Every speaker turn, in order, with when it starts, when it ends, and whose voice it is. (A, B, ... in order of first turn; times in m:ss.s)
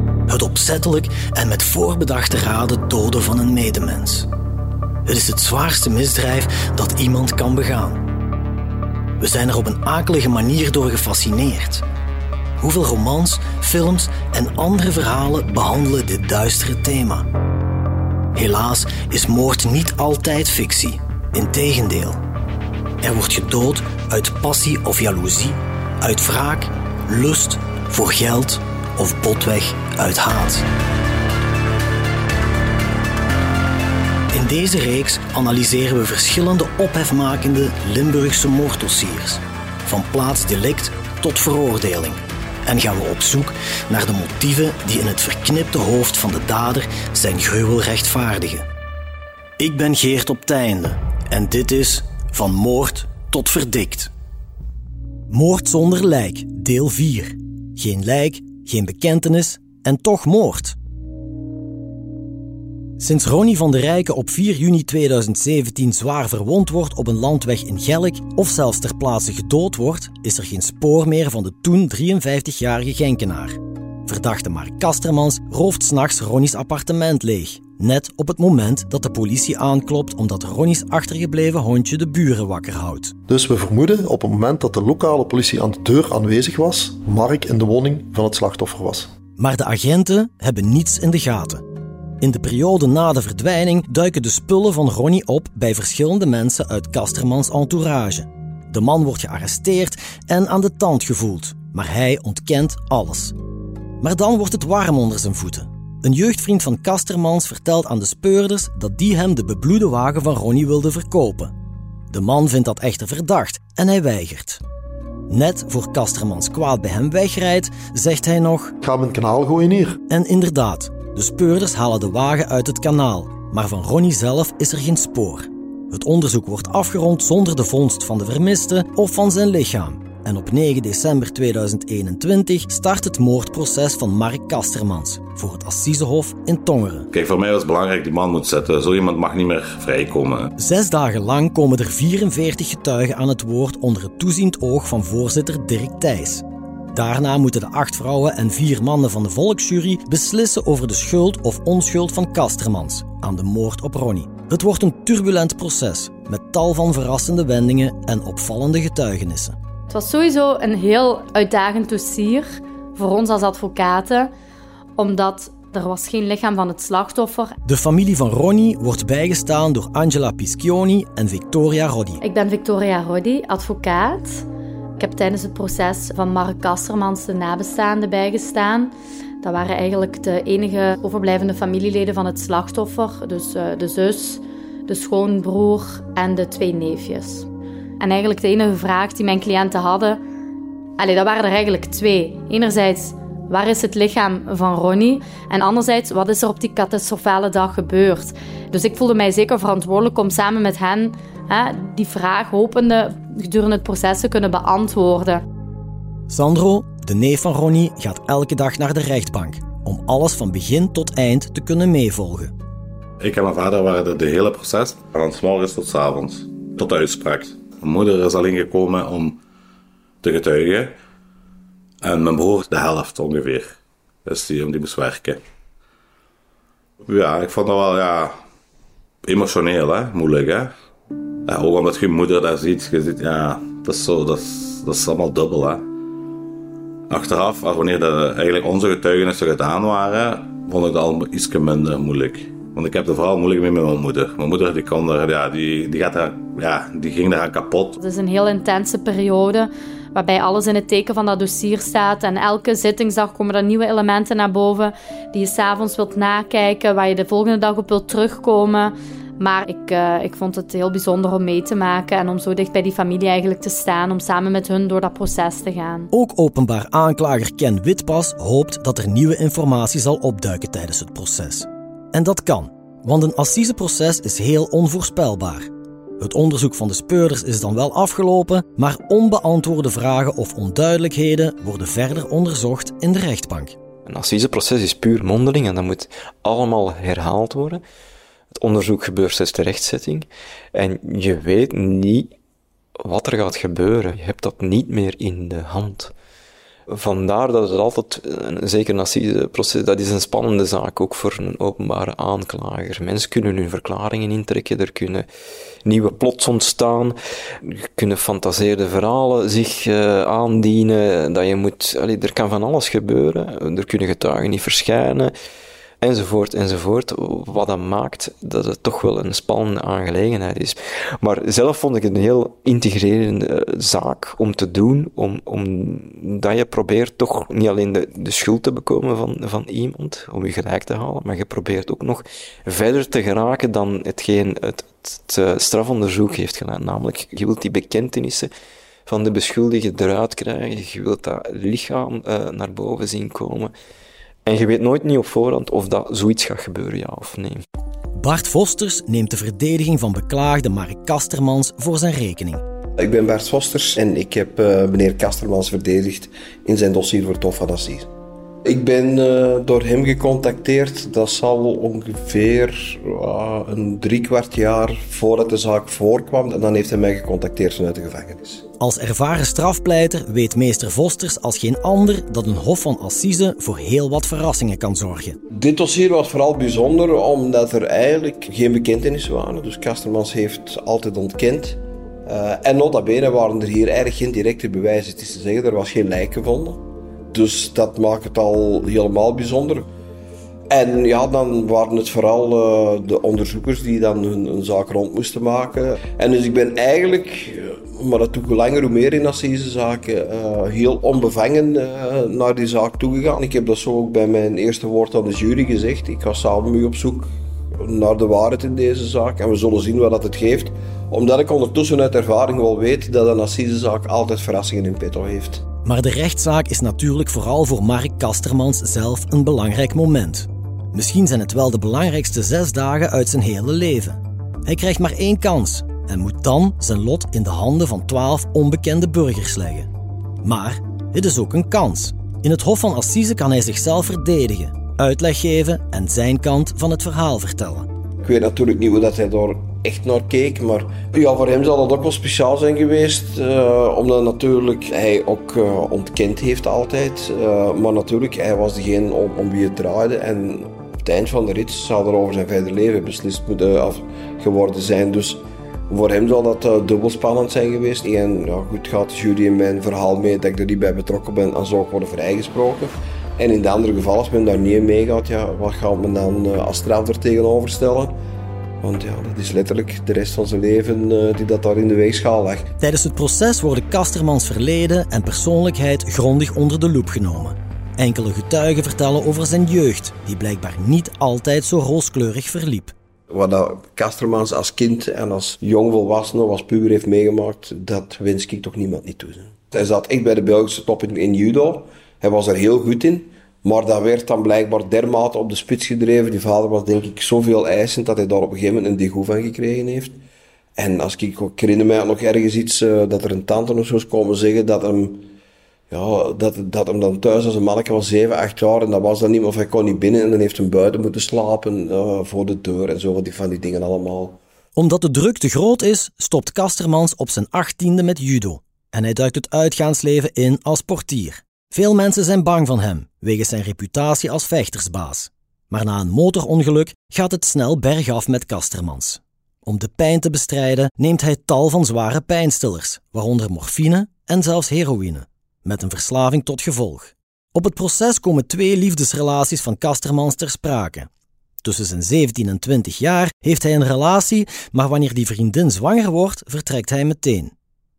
0:00.3-0:04.3 A
0:05.0-0:08.0 A
0:09.2-0:11.8 A
0:12.6-0:17.3 A
0:18.3-0:22.2 A
0:23.0-0:30.7 A
0:34.3-0:48.7 A
0:49.6-0:54.1 A
0:55.3-1:00.8 A
1:03.0-1:23.2 A
1:23.3-1:29.1 B
1:29.4-1:31.6 A
1:32.2-1:43.4 A
1:44.0-1:51.5 A
1:52.1-1:54.6 A
1:55.3-1:58.8 A
1:58.8-2:00.0 B
2:00.1-2:17.1 A
2:17.1-2:20.5 C
2:20.6-2:39.6 A
2:39.9-2:44.3 D
2:45.0-2:47.6 D
2:47.6-2:52.2 A
2:52.2-2:54.4 D
2:55.0-3:07.5 D
3:08.0-3:10.2 D
3:11.0-3:25.4 D
3:26.3-3:32.5 A
3:33.2-3:39.4 C
3:40.2-3:40.9 C
3:42.0-3:45.4 C
3:47.0-3:48.3 C
3:49.2-3:50.7 C
3:51.4-3:55.8 C
3:57.1-4:08.0 C
4:08.0-4:26.1 D
4:26.1-4:43.8 A
4:44.1-4:47.8 E
4:48.6-4:52.3 E
4:53.0-4:56.1 E
4:56.9-5:05.2 E
5:05.8-5:15.3 E
5:16.0-5:38.5 E
5:39.1-5:43.7 E
5:44.4-5:47.6 E
5:48.2-5:52.6 A
5:53.0-5:58.1 F
5:58.6-6:08.6 F
6:08.8-6:15.4 A
6:15.5-6:29.9 F
6:30.7-6:55.6 F
6:55.8-7:09.9 A
7:10.4-7:17.9 A
7:18.2-7:48.2 F
7:48.8-7:52.7 F
7:52.8-8:02.9 A
8:03.3-8:20.2 F
8:20.8-8:25.3 F
8:25.9-8:34.4 F
8:34.8-9:01.1 A
9:01.6-9:07.5 A